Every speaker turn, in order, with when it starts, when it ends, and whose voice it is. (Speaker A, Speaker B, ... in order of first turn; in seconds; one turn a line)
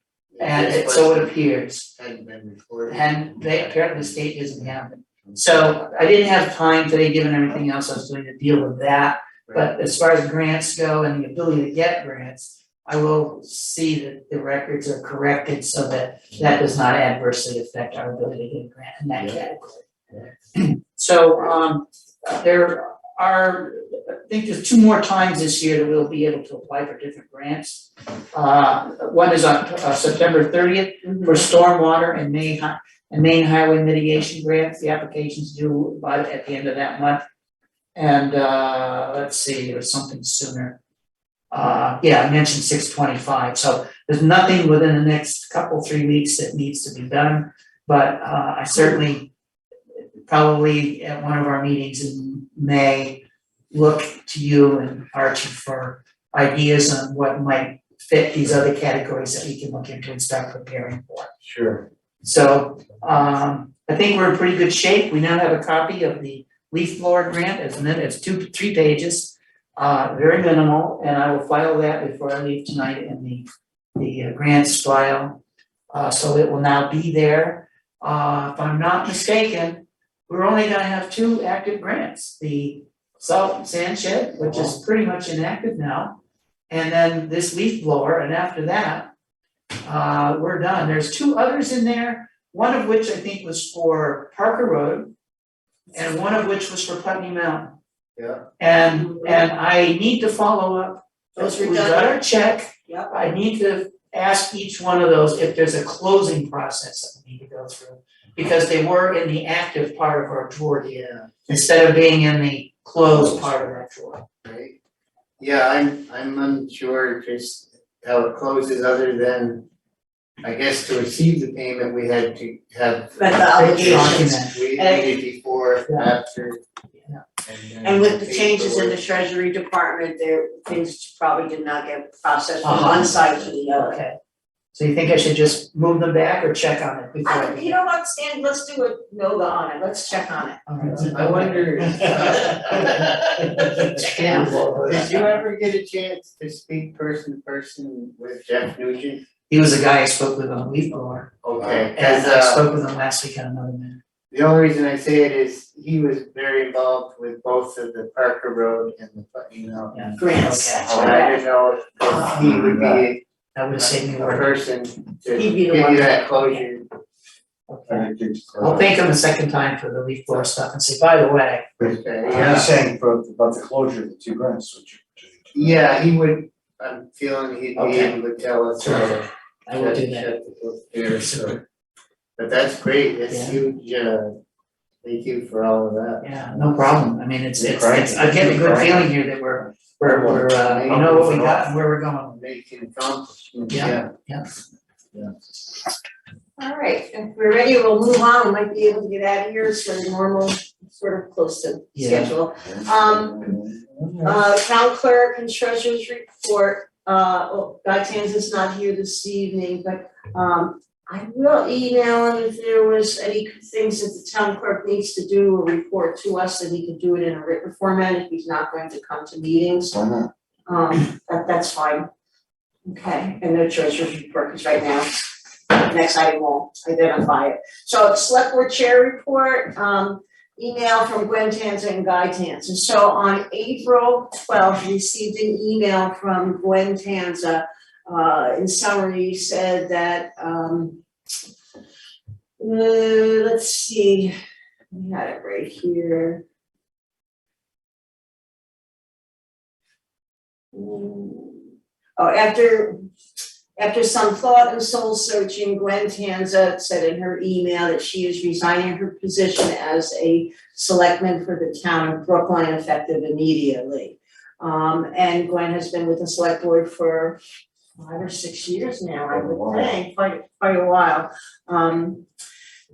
Speaker A: 0.3-1.3
Speaker B: 0.4-1.9
Speaker A: 1.9-3.9
Speaker B: 2.9-19.8
Speaker B: 20.5-37.2
Speaker C: 31.0-31.5
Speaker B: 38.0-40.8
Speaker B: 41.5-49.3
Speaker B: 50.3-61.3
Speaker A: 61.4-61.9
Speaker B: 62.2-73.5
Speaker B: 74.0-89.1
Speaker B: 89.8-95.1
Speaker B: 95.9-97.8
Speaker A: 98.2-98.5
Speaker B: 98.6-114.2
Speaker C: 99.0-99.4
Speaker C: 101.4-102.2
Speaker C: 102.9-103.1
Speaker A: 111.0-111.3
Speaker A: 114.5-114.8
Speaker A: 115.4-119.7
Speaker A: 120.4-126.6
Speaker C: 123.2-125.1
Speaker B: 123.8-124.6
Speaker A: 127.5-129.0
Speaker C: 127.8-134.0
Speaker B: 132.6-134.2
Speaker B: 134.7-137.8
Speaker C: 137.2-140.7
Speaker B: 140.7-145.3
Speaker A: 140.9-149.2
Speaker C: 144.2-144.5
Speaker B: 149.5-151.3
Speaker A: 151.4-152.6
Speaker B: 151.9-154.0
Speaker A: 154.3-160.2
Speaker B: 159.9-161.1
Speaker C: 160.2-161.4
Speaker D: 160.8-161.2
Speaker A: 160.9-163.2
Speaker D: 162.1-163.1
Speaker B: 163.6-164.5
Speaker A: 163.8-166.9
Speaker C: 165.3-166.6
Speaker B: 167.7-172.7
Speaker D: 167.9-168.9
Speaker A: 171.8-172.7
Speaker D: 171.8-175.8
Speaker A: 175.5-181.6
Speaker B: 177.8-178.1
Speaker B: 178.8-180.3
Speaker B: 181.1-181.6
Speaker A: 182.4-184.4
Speaker B: 183.3-183.6
Speaker A: 185.0-186.3
Speaker B: 186.2-192.4
Speaker D: 187.6-189.1
Speaker A: 190.0-191.4
Speaker D: 190.8-191.6
Speaker A: 192.3-194.1
Speaker B: 193.7-194.4
Speaker C: 196.6-203.6
Speaker B: 201.9-202.3
Speaker D: 202.7-204.4
Speaker C: 204.2-220.0
Speaker D: 219.9-220.3
Speaker C: 220.7-222.1
Speaker C: 222.9-241.0
Speaker C: 242.6-244.3
Speaker C: 244.9-246.4
Speaker C: 250.7-253.0
Speaker C: 253.8-267.4
Speaker C: 268.0-272.2
Speaker D: 269.3-269.9